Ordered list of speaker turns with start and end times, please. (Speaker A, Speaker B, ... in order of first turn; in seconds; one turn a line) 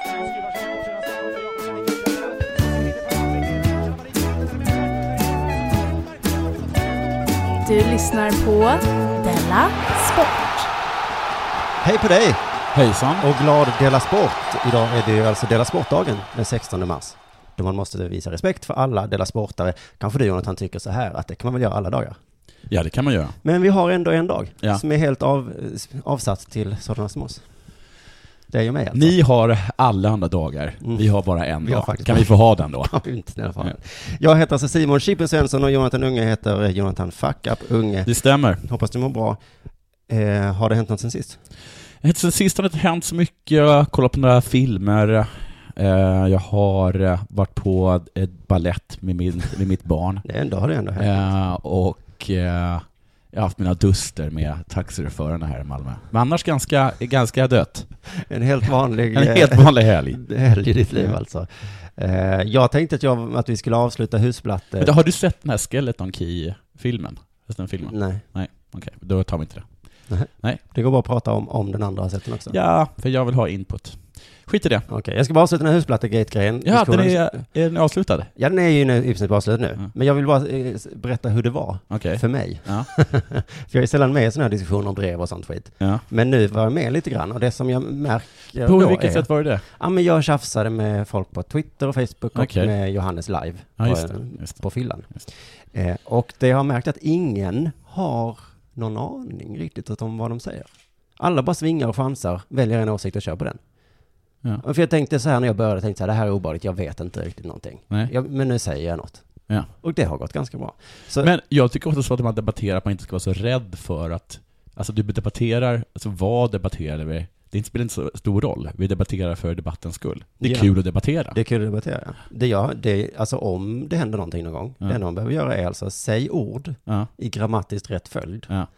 Speaker A: 7.6-10.7
Speaker B: 11.8-12.4
Speaker C: 12.7-13.2
Speaker B: 13.2-22.2
Speaker C: 22.7-23.4
Speaker B: 23.4-27.4
Speaker B: 28.5-29.1
Speaker C: 28.9-33.0
Speaker B: 31.6-39.4
Speaker C: 38.0-38.6
Speaker B: 40.1-41.4
Speaker C: 42.0-50.2
Speaker B: 50.2-51.3
Speaker C: 51.0-57.9
Speaker B: 58.1-64.9
Speaker C: 59.1-60.2
Speaker C: 64.8-69.7
Speaker B: 67.8-68.2
Speaker B: 70.1-72.5
Speaker C: 70.3-70.6
Speaker C: 72.5-74.8
Speaker B: 74.9-77.5
Speaker C: 76.6-78.3
Speaker B: 78.3-103.6
Speaker C: 81.9-82.9
Speaker C: 88.6-89.6
Speaker C: 92.3-92.7
Speaker C: 93.8-95.2
Speaker B: 104.6-111.3
Speaker C: 111.2-121.4
Speaker B: 120.4-128.5